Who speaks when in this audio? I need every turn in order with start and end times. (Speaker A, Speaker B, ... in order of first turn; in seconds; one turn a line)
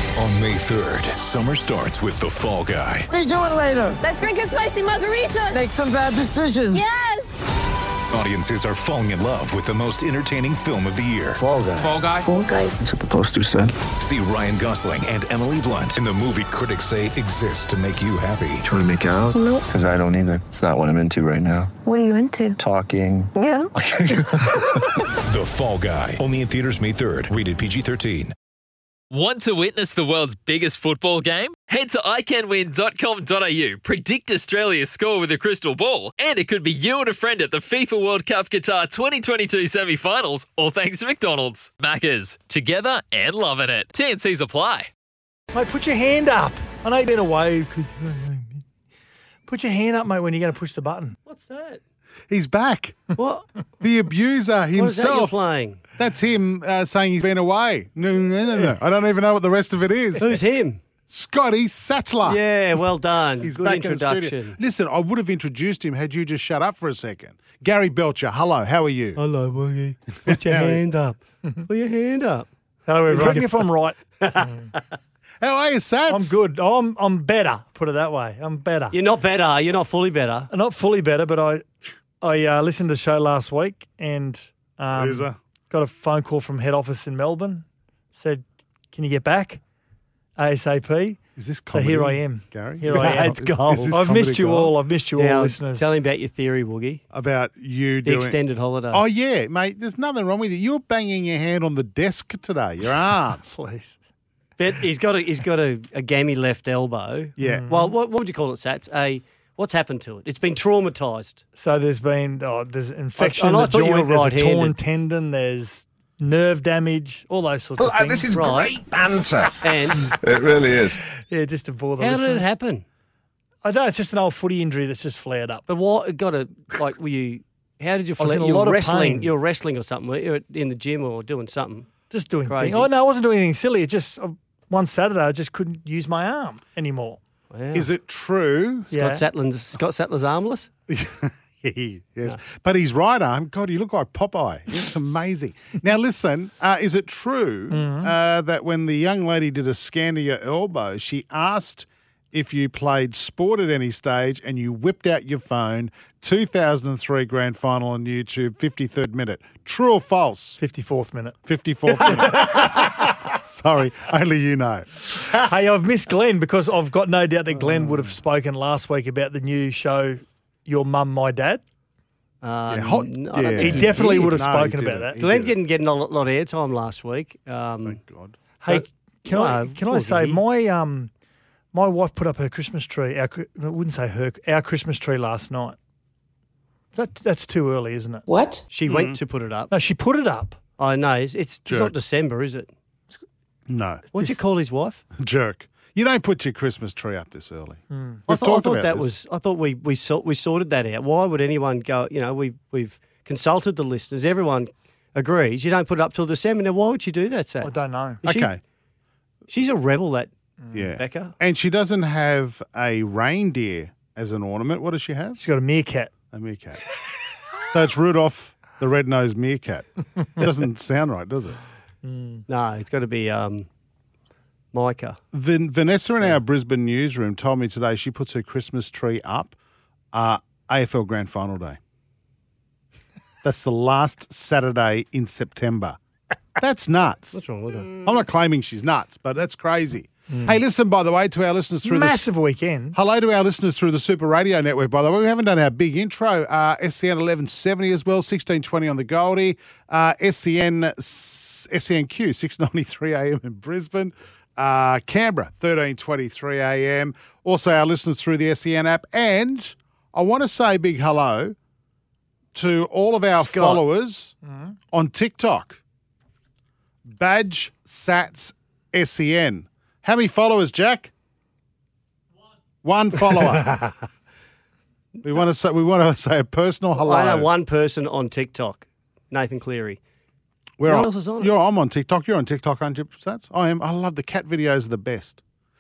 Speaker A: 0.1-3.1
Speaker B: 3.1-4.0
Speaker C: 3.5-5.8
Speaker B: 5.5-6.8
Speaker C: 6.5-7.3
Speaker A: 8.1-12.2
Speaker B: 11.5-12.5
Speaker D: 12.4-12.8
Speaker A: 13.9-18.7
Speaker D: 19.3-19.6
Speaker D: 21.8-22.6
Speaker D: 23.3-23.7
Speaker A: 25.2-28.3
Speaker E: 29.1-44.9
Speaker F: 45.5-48.6
Speaker F: 49.5-51.2
Speaker G: 51.2-51.8
Speaker H: 52.3-53.1
Speaker G: 53.1-53.6
Speaker H: 53.8-55.4
Speaker G: 54.7-55.9
Speaker H: 56.0-60.4
Speaker G: 60.2-60.8
Speaker H: 61.1-62.4
Speaker G: 62.2-64.6
Speaker H: 63.4-69.2
Speaker G: 69.2-72.5
Speaker H: 70.2-70.8
Speaker F: 72.9-74.6
Speaker G: 73.1-73.4
Speaker G: 74.2-74.8
Speaker H: 75.4-76.4
Speaker F: 76.1-79.0
Speaker G: 78.9-80.5
Speaker F: 80.5-81.7
Speaker F: 82.2-89.6
Speaker H: 84.9-85.4
Speaker F: 90.4-91.2
Speaker H: 91.4-94.7
Speaker F: 91.7-95.8
Speaker G: 92.9-94.0
Speaker G: 95.2-97.0
Speaker H: 97.1-98.4
Speaker G: 98.0-99.0
Speaker H: 98.9-103.4
Speaker F: 103.3-104.0
Speaker G: 104.6-111.4
Speaker H: 107.4-107.7
Speaker F: 107.4-107.9
Speaker F: 111.5-118.4
Speaker G: 113.2-114.8
Speaker I: 117.8-119.5
Speaker G: 118.3-118.8
Speaker G: 119.6-120.1
Speaker I: 120.2-120.9
Speaker F: 121.3-122.5
Speaker G: 122.0-122.8
Speaker F: 123.6-125.6
Speaker G: 125.7-131.9
Speaker F: 128.2-129.3
Speaker F: 132.1-137.2
Speaker G: 132.4-132.9
Speaker G: 137.5-137.9
Speaker H: 137.7-138.9
Speaker F: 138.9-139.2
Speaker G: 138.9-140.7
Speaker H: 140.9-160.6
Speaker F: 147.7-148.1
Speaker F: 160.6-161.4
Speaker H: 161.5-164.8
Speaker F: 162.0-162.8
Speaker F: 165.2-171.6
Speaker G: 172.4-174.5
Speaker H: 172.7-175.6
Speaker F: 173.6-175.2
Speaker G: 175.2-178.0
Speaker H: 177.8-178.4
Speaker F: 178.6-181.1
Speaker G: 178.7-180.4
Speaker F: 181.7-185.8
Speaker F: 186.9-188.2
Speaker C: 188.3-188.6
Speaker G: 188.7-189.7
Speaker H: 188.8-189.2
Speaker F: 189.7-190.6
Speaker G: 190.8-192.7
Speaker H: 191.7-191.9
Speaker H: 193.7-194.1
Speaker G: 194.1-195.0
Speaker H: 195.2-199.1
Speaker F: 197.9-198.2
Speaker G: 198.3-208.5
Speaker F: 207.6-208.2
Speaker H: 208.2-208.6
Speaker G: 209.5-210.3
Speaker H: 210.7-215.4
Speaker G: 210.9-211.3
Speaker F: 215.4-216.1
Speaker H: 216.3-216.9
Speaker H: 217.7-221.6
Speaker F: 222.0-222.4
Speaker G: 222.5-223.7
Speaker G: 224.7-225.2
Speaker H: 225.3-229.6
Speaker H: 230.1-231.8
Speaker H: 233.4-236.0
Speaker H: 236.6-242.2
Speaker G: 237.3-238.2
Speaker F: 240.3-240.6
Speaker F: 241.8-243.0
Speaker H: 242.9-261.5
Speaker H: 262.5-264.3
Speaker G: 263.4-263.8
Speaker F: 264.4-264.7
Speaker H: 264.9-265.8
Speaker H: 267.1-271.1
Speaker H: 272.8-273.9
Speaker H: 275.2-277.5
Speaker G: 276.9-280.0
Speaker H: 280.8-285.4
Speaker G: 280.8-281.6